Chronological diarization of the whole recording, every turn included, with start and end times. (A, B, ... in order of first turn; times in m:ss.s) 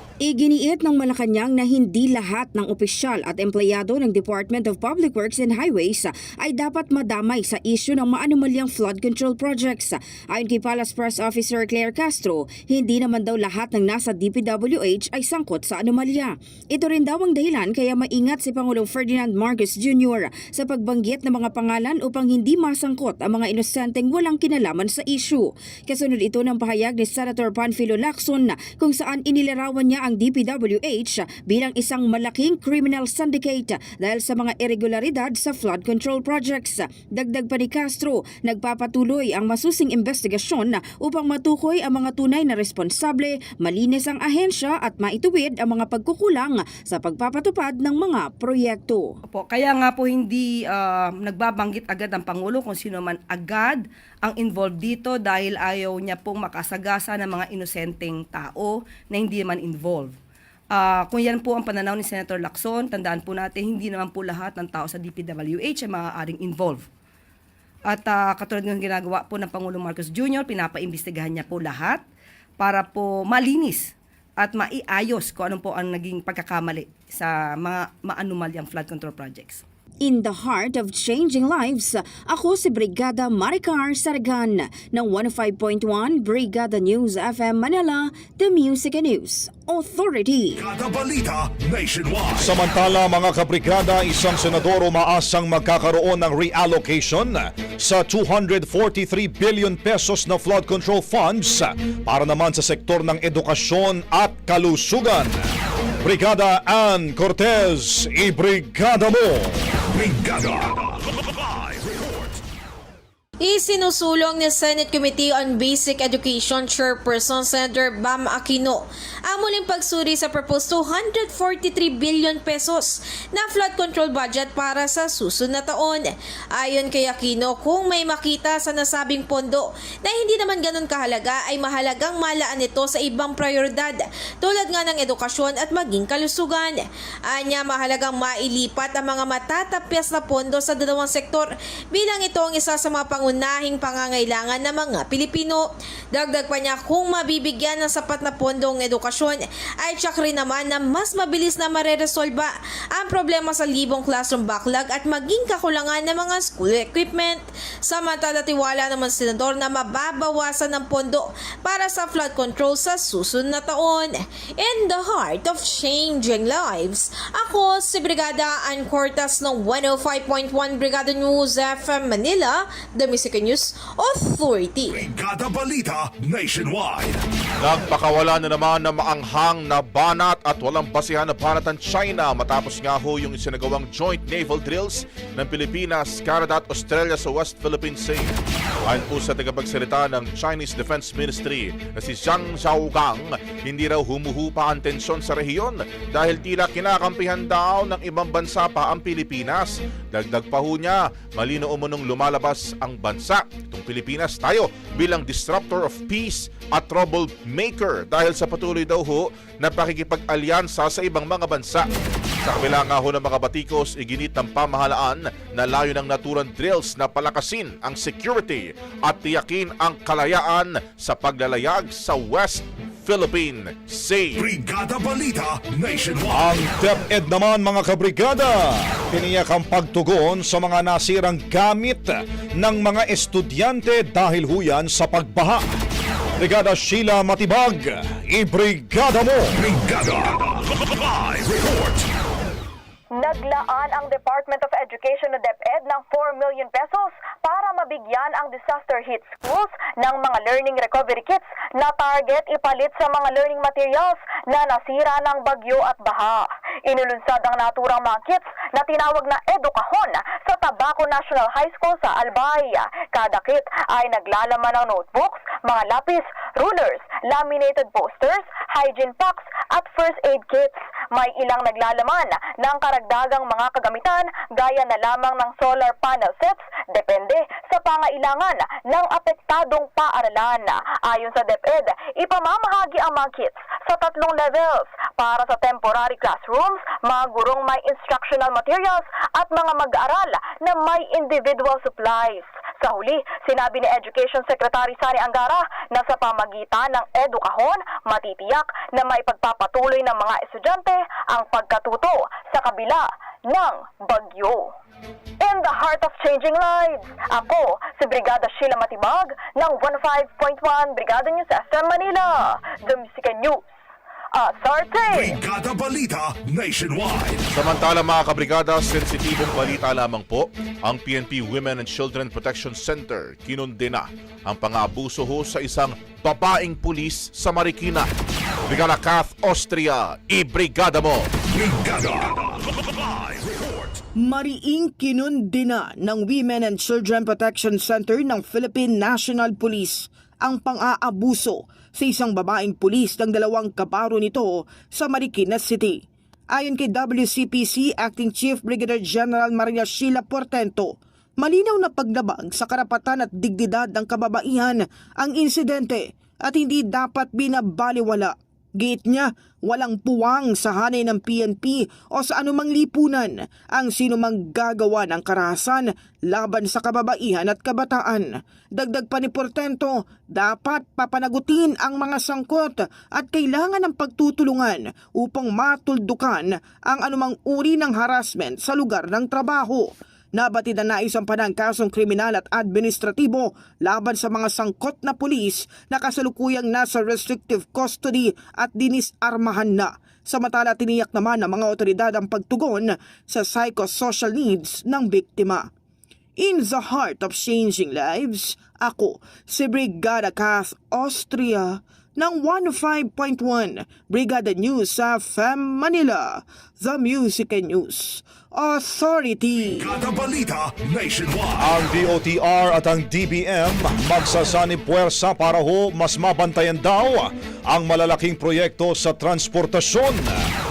0:00.2-0:49.0 A
0:49.3-1:00.1 B
1:00.8-1:06.8 B
1:07.9-1:12.0 B
1:12.6-1:13.9 B
1:14.4-1:19.6 B
1:20.0-1:30.6 A
1:30.6-1:32.5 C
1:32.4-1:45.4 D
1:46.0-1:49.6 D
1:49.9-1:52.4 C
1:53.4-2:55.0 E
2:54.9-2:57.2 C
2:57.6-3:08.4 F
3:08.9-3:31.8 F
3:32.4-3:44.4 F
3:44.4-3:46.6 C
3:46.3-3:55.6 D
3:56.4-3:59.6 D
3:59.6-4:02.0 C
4:03.1-5:04.7 G
5:05.4-5:13.6 G
5:14.3-5:15.4 G
5:15.1-5:17.4 C
5:17.5-5:28.0 F
5:28.7-5:31.3 F
5:31.5-5:34.0 C
5:34.2-5:46.0 H
5:46.5-6:35.7 H
6:36.4-6:49.9 H
6:49.7-6:51.7 C
6:51.6-7:00.4 D